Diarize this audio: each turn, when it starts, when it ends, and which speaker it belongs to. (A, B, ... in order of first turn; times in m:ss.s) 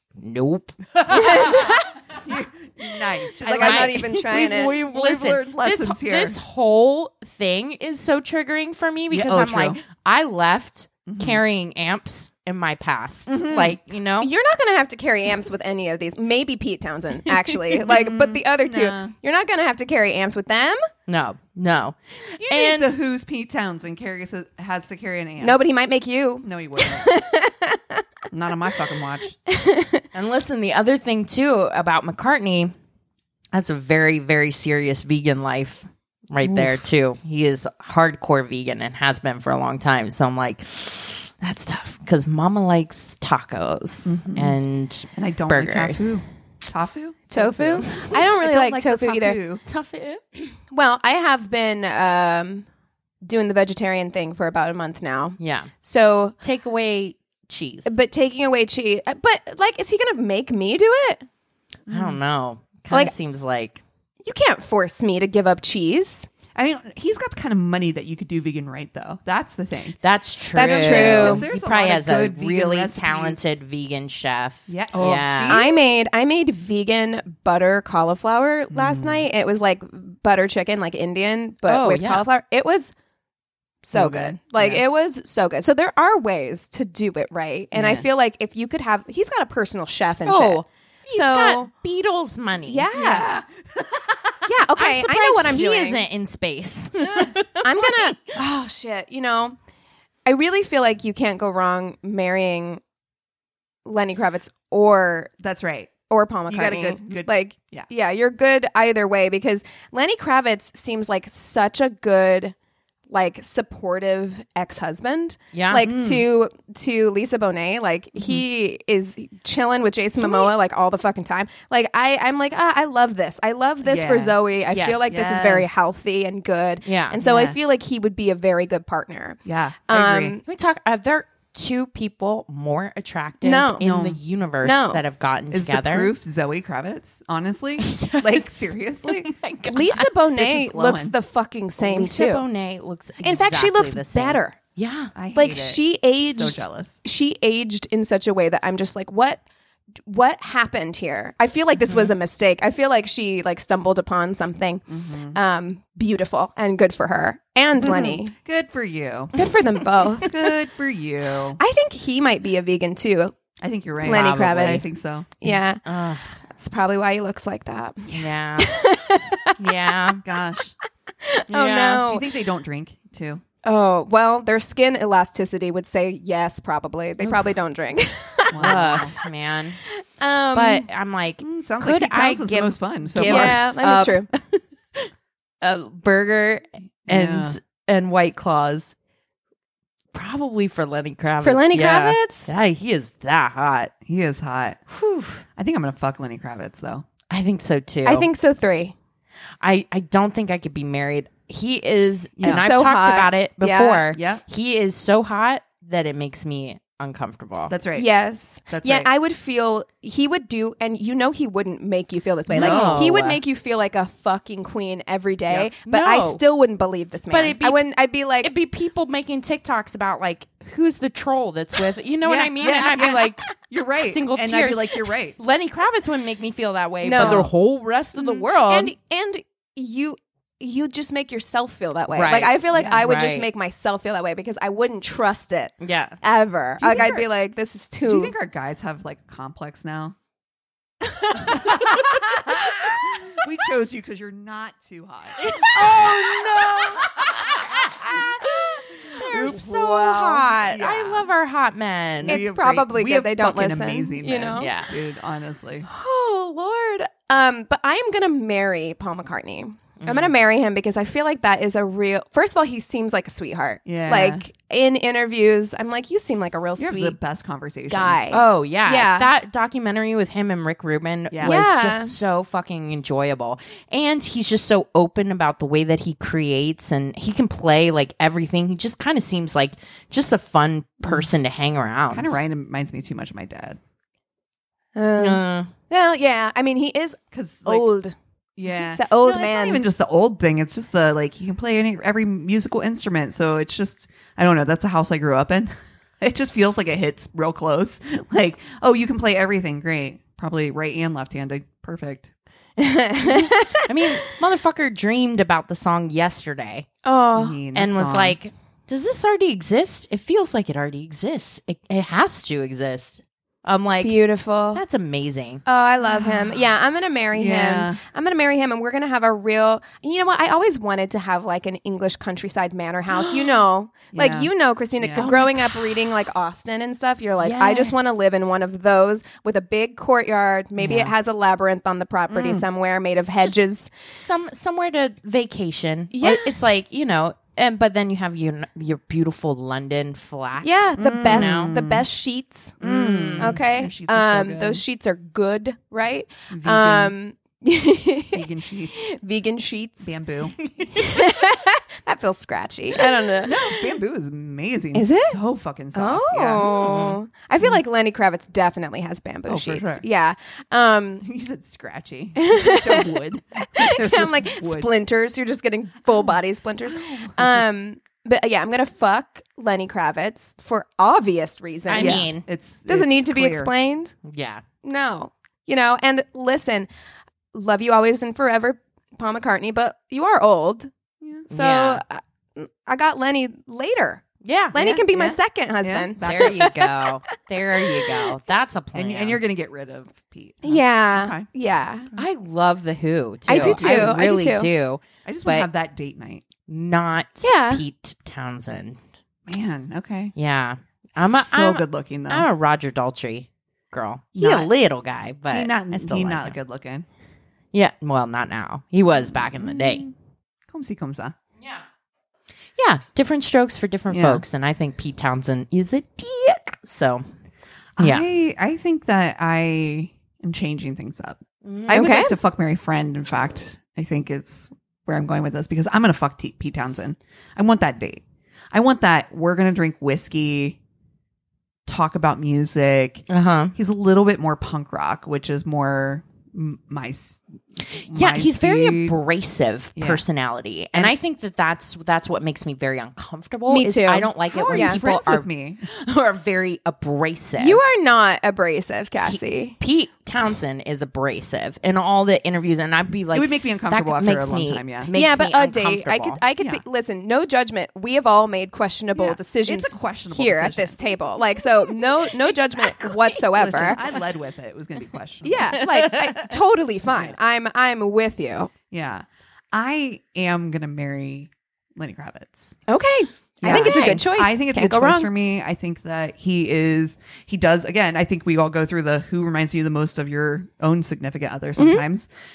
0:00.2-0:01.8 A
0:01.0-0:06.4 B
0:01.1-0:01.8 C
0:03.3-0:04.8 C
0:03.6-0:14.3 A
0:09.1-0:09.8 B
0:11.1-0:11.4 B
0:13.3-0:13.8 B
0:14.2-0:20.8 C
0:17.7-0:19.1 B
0:21.1-0:23.0 A
0:22.4-0:25.6 B
0:25.4-0:28.0 C
0:26.4-0:27.1 B
0:28.3-0:29.4 B
0:29.5-0:30.0 C
0:30.1-0:32.7 A
0:33.5-0:46.2 A
0:36.4-0:36.8 B
0:44.0-0:44.6 B
0:45.2-0:49.6 B
0:47.3-0:49.4 C
0:47.8-0:48.1 A
0:49.7-0:50.2 A
0:50.7-0:52.7 C
0:53.2-0:56.4 C
0:55.4-0:55.7 A
0:56.4-0:57.9 A
0:57.9-1:01.2 C
1:01.9-1:02.2 B
1:01.9-1:03.8 A
1:04.2-1:06.3 C
1:06.6-1:10.0 B
1:10.0-1:15.6 A
1:10.5-1:11.5 C
1:10.6-1:13.5 B
1:14.7-1:15.7 B
1:15.5-1:22.9 C
1:18.7-1:19.3 B
1:21.7-1:22.2 A
1:23.8-1:31.7 C
1:24.0-1:24.8 B
1:27.8-1:28.0 B
1:30.3-1:32.9 A
1:32.7-1:33.4 C
1:32.9-1:34.4 B
1:34.4-1:36.0 C
1:34.8-1:38.2 A
1:37.6-1:39.6 C
1:40.2-1:42.8 C
1:43.8-1:45.3 C
1:45.4-1:45.9 B
1:46.1-1:52.6 C
1:46.5-1:47.9 B
1:53.1-2:10.4 C
1:55.5-1:55.9 A
1:55.8-1:56.2 B
2:03.8-2:04.4 B
2:04.7-2:05.2 A
2:05.1-2:05.7 B
2:06.8-2:07.2 A
2:07.2-2:07.6 B
2:09.4-2:10.4 B
2:10.5-2:16.1 A
2:13.4-2:13.8 C
2:13.8-2:14.2 B
2:14.6-2:15.0 C
2:15.5-2:19.3 B
2:17.8-2:20.1 A
2:19.7-2:22.4 C
2:20.4-2:21.1 B
2:21.8-2:25.1 A
2:23.2-2:24.6 C
2:25.2-2:27.0 B
2:25.3-2:29.4 C
2:30.1-2:38.3 C
2:31.9-2:32.1 A
2:34.9-2:35.4 B
2:37.8-2:39.4 B
2:39.4-2:40.4 C
2:40.1-2:41.6 B
2:41.6-2:43.4 C
2:43.6-2:45.4 B
2:44.0-2:44.8 C
2:44.0-2:44.9 A
2:45.4-2:45.8 C
2:45.5-2:46.4 A
2:46.5-2:49.9 C
2:48.1-2:48.7 A
2:49.6-2:50.2 A
2:50.2-2:50.8 B
2:51.2-2:52.3 C
2:51.5-2:52.0 A
2:52.0-2:53.4 B
2:53.6-2:59.3 C
2:58.5-2:59.1 B
2:58.6-2:59.8 A
2:59.9-3:00.9 C
3:00.5-3:03.7 A
3:01.4-3:04.2 B
3:03.2-3:04.3 C
3:05.6-3:08.9 A
3:07.1-3:07.6 B
3:10.1-3:13.9 A
3:11.4-3:12.5 C
3:14.0-3:14.8 B
3:14.9-3:15.4 A
3:15.6-3:17.1 B
3:17.3-3:18.3 A
3:18.0-3:19.0 C
3:19.6-3:27.7 A
3:22.4-3:22.7 B
3:22.4-3:24.0 C
3:24.1-3:24.4 B
3:27.7-3:28.1 B
3:27.9-3:38.5 C
3:28.7-3:29.1 B
3:32.5-3:33.4 A
3:32.5-3:33.1 B
3:35.7-3:36.4 A
3:37.3-3:37.8 A
3:38.4-3:48.9 A
3:42.2-3:45.4 B
3:42.8-3:43.2 C
3:47.0-3:47.5 C
3:47.2-3:47.5 B
3:48.2-3:58.3 C
3:52.1-3:53.5 A
3:52.7-3:53.0 B
3:55.8-3:56.2 A
3:56.8-3:57.3 B
3:58.0-4:00.2 B
4:01.1-4:02.5 C
4:01.4-4:08.6 B
4:05.4-4:12.4 A
4:05.8-4:07.0 C
4:09.1-4:10.5 C
4:09.2-4:09.7 B
4:10.5-4:11.3 B
4:12.2-4:15.9 B
4:12.3-4:14.7 C
4:14.6-4:14.9 A
4:15.9-4:27.2 C
4:20.0-4:20.3 A
4:23.8-4:24.4 B
4:26.8-4:28.3 B
4:27.9-4:29.3 C
4:28.3-4:42.4 A
4:31.3-4:31.6 B
4:31.4-4:32.2 C
4:41.0-4:41.3 B
4:42.1-4:43.8 B
4:45.0-4:48.2 C
4:45.2-4:45.7 A
4:47.3-4:47.9 B
4:48.6-5:02.3 B
4:48.9-4:49.8 C
5:02.8-5:04.3 C
5:03.9-5:06.9 A
5:07.0-5:07.6 C
5:07.4-5:08.4 B
5:07.7-5:14.2 A
5:14.0-5:14.8 C
5:14.7-5:15.6 A
5:15.7-5:33.9 C
5:17.3-5:18.0 B
5:24.1-5:25.3 B
5:25.1-5:26.1 A
5:27.4-5:28.5 A
5:30.8-5:31.1 A
5:32.3-5:32.6 B
5:33.4-5:41.7 A
5:36.1-5:36.5 C
5:40.6-5:42.8 C
5:41.0-5:42.0 B
5:42.8-5:44.8 B
5:42.8-5:43.6 A
5:43.4-5:50.2 C
5:46.5-5:47.2 B
5:48.3-5:49.0 B
5:50.0-5:50.6 B
5:50.9-5:53.9 C
5:53.3-5:57.0 B
5:54.9-5:55.4 C
5:55.9-6:01.3 C
5:56.8-5:57.2 A
5:59.5-6:00.0 B
6:01.2-6:04.9 B
6:02.4-6:12.4 C
6:06.9-6:07.6 B
6:11.9-6:12.4 A
6:12.0-6:13.7 B
6:12.9-6:14.1 C
6:14.2-6:14.6 A
6:14.8-6:16.9 C
6:17.5-6:20.9 C
6:21.5-6:28.3 C
6:21.5-6:22.0 A
6:24.4-6:25.0 A
6:24.8-6:26.7 B
6:26.2-6:29.4 A
6:28.9-6:31.5 B
6:30.6-6:32.1 C
6:32.2-6:35.7 A
6:33.5-6:34.7 C
6:33.6-6:34.2 B
6:35.2-6:36.5 B
6:36.7-6:39.0 A
6:37.4-6:37.8 C
6:39.5-6:40.3 B
6:40.4-6:46.6 A
6:41.2-6:42.5 B
6:44.4-6:44.7 B
6:45.5-6:47.1 B
6:47.7-6:50.0 A
6:49.2-6:50.1 B
6:50.7-6:51.4 B
6:52.8-6:57.2 A
6:54.1-6:54.4 B
6:58.0-7:10.8 B
6:58.0-6:58.2 A
7:01.6-7:02.0 A
7:01.9-7:02.4 C
7:11.9-7:19.2 B
7:13.3-7:13.7 A
7:17.9-7:27.9 A
7:20.0-7:20.2 B
7:23.7-7:25.0 C
7:24.5-7:25.8 B
7:27.6-7:29.8 C
7:29.2-7:36.4 A
7:33.3-7:35.1 B
7:35.1-7:44.0 C
7:39.2-7:41.0 B
7:42.8-7:43.2 A
7:43.5-7:45.8 B
7:45.4-7:48.7 C
7:45.8-7:46.4 A
7:47.1-7:47.4 B
7:48.9-7:52.8 B
7:52.9-7:55.3 C
7:53.6-8:02.3 B
7:53.7-7:54.2 A
8:01.8-8:02.0 C